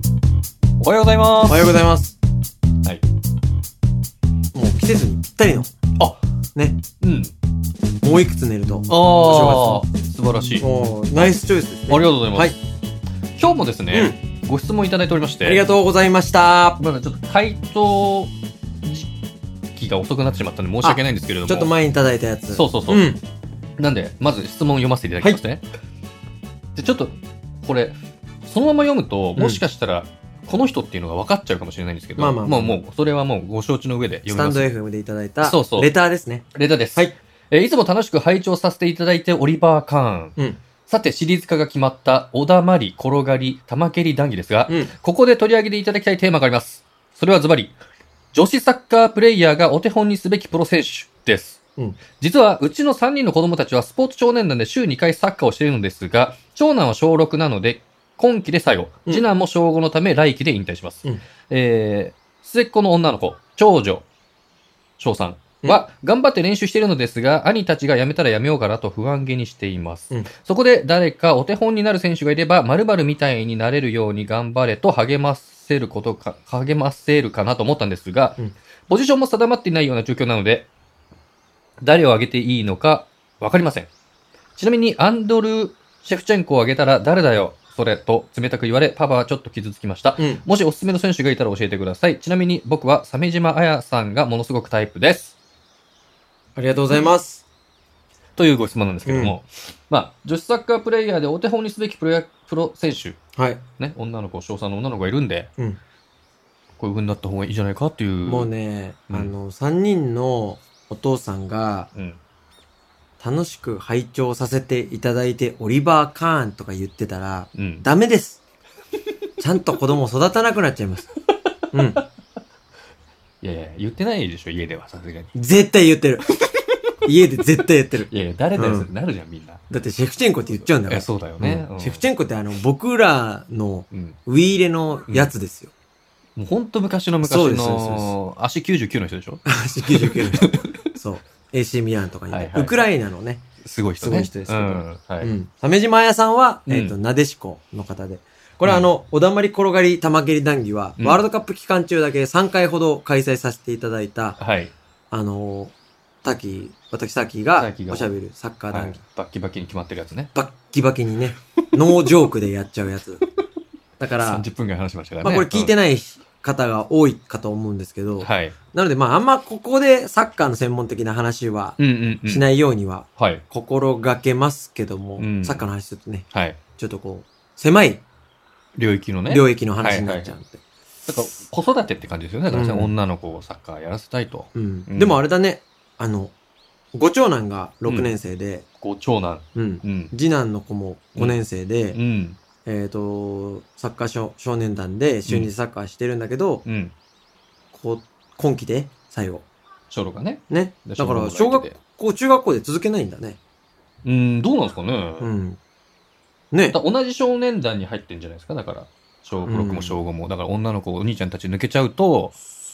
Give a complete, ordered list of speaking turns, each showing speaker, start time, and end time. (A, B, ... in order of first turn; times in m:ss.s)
0:00.8-0:01.7 A
0:01.5-0:02.2 B
0:04.5-0:05.7 B
0:06.5-0:06.8 B
0:07.0-0:07.3 A
0:08.0-0:09.8 B
0:08.9-0:11.3 A
0:10.6-0:12.6 B
0:11.9-0:12.5 A
0:13.4-0:15.6 A
0:15.4-0:16.8 B
0:16.8-0:18.3 A
0:19.7-0:21.7 A
0:20.8-0:23.2 B
0:22.5-0:23.0 A
0:23.8-0:25.6 A
0:26.8-0:34.7 A
0:29.4-0:29.6 B
0:32.2-0:32.8 B
0:34.3-0:37.1 B
0:35.4-0:35.9 A
0:36.5-0:40.4 A
0:40.9-0:47.8 A
0:48.3-0:51.6 A
0:52.2-1:04.0 A
1:05.0-1:20.7 A
1:21.8-1:23.9 A
1:24.6-1:35.4 A
1:30.2-1:30.4 B
1:36.6-1:37.4 B
1:38.4-1:43.2 A
1:39.0-1:39.4 B
1:43.4-1:43.6 B
1:43.8-1:45.5 A
1:46.8-1:48.5 A
1:48.2-1:51.9 B
1:51.9-1:52.2 A
1:53.2-1:58.4 B
1:57.5-1:57.8 A
1:59.4-2:01.1 B
2:01.7-2:02.0 B
2:03.4-2:05.3 A
2:05.3-2:06.2 B
2:07.0-2:08.9 B
2:08.1-2:09.6 A
2:09.7-2:15.7 B
2:10.9-2:12.0 A
2:13.9-2:14.2 A
2:15.1-2:15.3 A
2:16.4-2:20.8 A
2:17.2-2:18.1 B
2:19.4-2:23.4 B
2:22.3-2:22.8 A
2:23.6-2:25.3 A
2:24.0-2:34.4 B
2:26.7-2:26.9 A
2:34.4-2:34.7 A
2:35.1-2:39.0 B
2:37.6-2:38.1 A
2:38.7-2:40.3 A
2:40.3-2:43.2 B
2:44.0-2:44.4 B
2:44.2-2:45.7 A
2:45.2-2:58.0 B
2:48.2-2:48.6 A
2:51.8-2:52.5 A
2:53.2-2:53.4 A
2:55.2-2:55.6 A
2:56.3-2:56.6 A
2:58.8-3:00.3 A
2:59.3-3:00.6 B
3:01.1-3:05.2 A
3:02.5-3:02.9 B
3:04.5-3:06.3 B
3:06.9-3:08.6 B
3:07.8-3:08.1 A
3:08.8-3:10.1 A
3:09.5-3:12.0 B
3:11.9-3:12.4 A
3:12.6-3:16.6 B
3:15.2-3:15.5 A
3:16.6-3:16.9 A
3:17.7-3:19.4 B
3:19.9-3:21.8 A
3:20.5-3:23.4 B
3:24.0-3:25.3 A
3:25.2-3:25.6 B
3:26.5-3:26.8 B
3:26.7-3:32.4 A
3:29.4-3:30.0 B